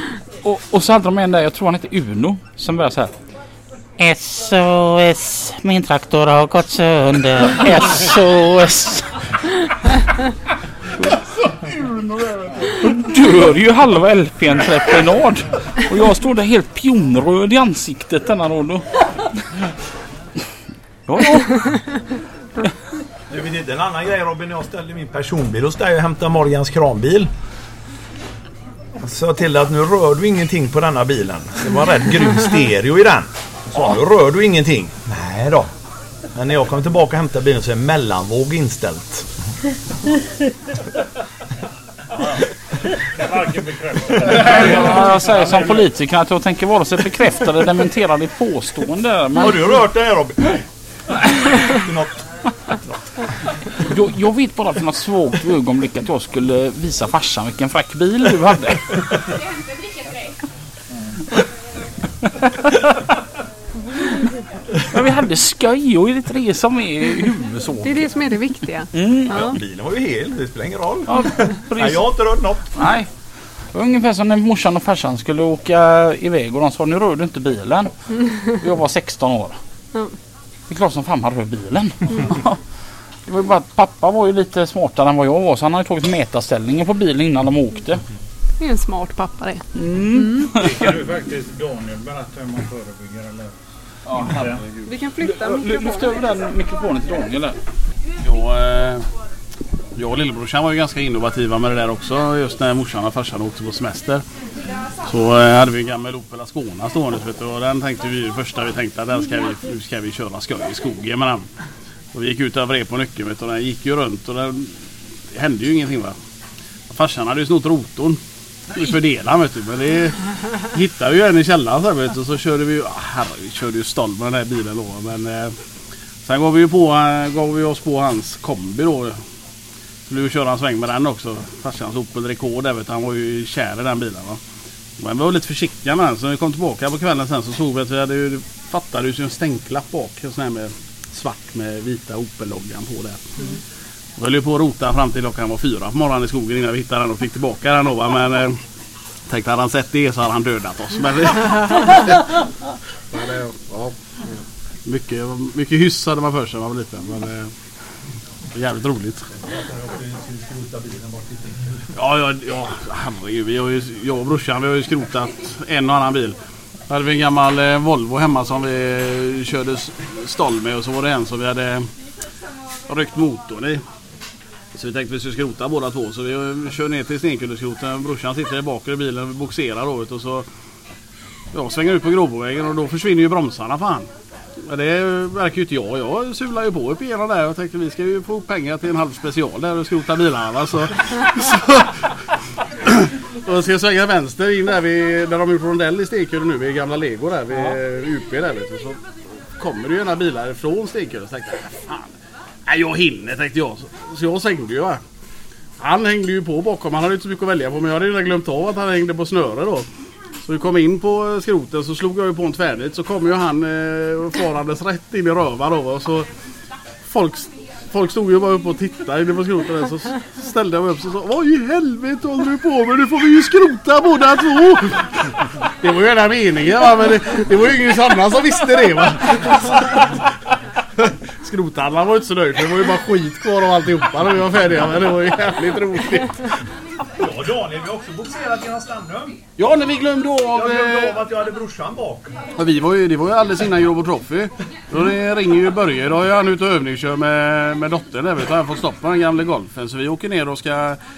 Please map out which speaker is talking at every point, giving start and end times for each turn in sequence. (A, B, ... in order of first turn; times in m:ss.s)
0:00.4-0:03.1 A
0:04.0-0:09.2 A
0:12.7-0:18.8 A
0:21.1-0:21.8 A
0:23.3-0:27.3 B
0:29.0-0:35.7 B
0:36.3-0:39.3 B
0:43.2-0:45.8 C
0:44.3-0:49.7 A
0:49.4-0:50.6 B
0:51.6-0:52.2 B
0:53.8-0:59.0 A
1:02.4-1:02.8 A
1:04.8-1:08.0 A
1:07.8-1:09.6 D
1:08.9-1:09.6 A
1:09.3-1:12.7 B
1:11.1-1:12.1 A
1:12.7-1:13.1 A
1:13.7-1:19.6 A
1:20.7-1:22.6 A
1:23.3-1:28.0 A
1:28.6-1:30.5 D
1:29.7-1:30.9 A
1:30.6-1:33.5 C
1:34.1-1:34.6 C
1:34.9-1:36.1 D
1:35.2-1:37.6 A
1:38.2-1:39.0 E
1:40.0-1:44.2 E
1:45.0-1:51.4 E
1:52.2-1:54.7 E
1:55.3-1:56.1 E
1:56.9-1:58.2 E
1:58.7-2:05.5 E
2:06.2-2:09.2 E
2:10.1-2:14.4 E
2:15.0-2:23.2 E
2:24.2-2:28.6 E
2:29.3-2:32.1 E
2:33.1-2:34.0 E
2:34.9-2:37.5 E
2:38.5-2:39.2 E
2:39.8-2:41.3 B
2:42.0-2:46.4 E
2:46.9-2:51.9 E
2:52.9-2:53.8 E
2:54.8-3:00.5 E
3:01.5-3:04.1 E
3:04.7-3:12.0 E
3:12.8-3:19.0 E
3:19.6-3:22.0 E
3:22.7-3:25.0 E
3:25.8-3:29.9 E
3:30.4-3:36.3 E
3:37.0-3:45.3 E
3:45.8-3:50.2 E
3:51.0-3:56.4 E
3:57.2-3:59.4 B
3:59.6-4:01.2 E
4:00.5-4:02.3 B
4:02.6-4:11.0 E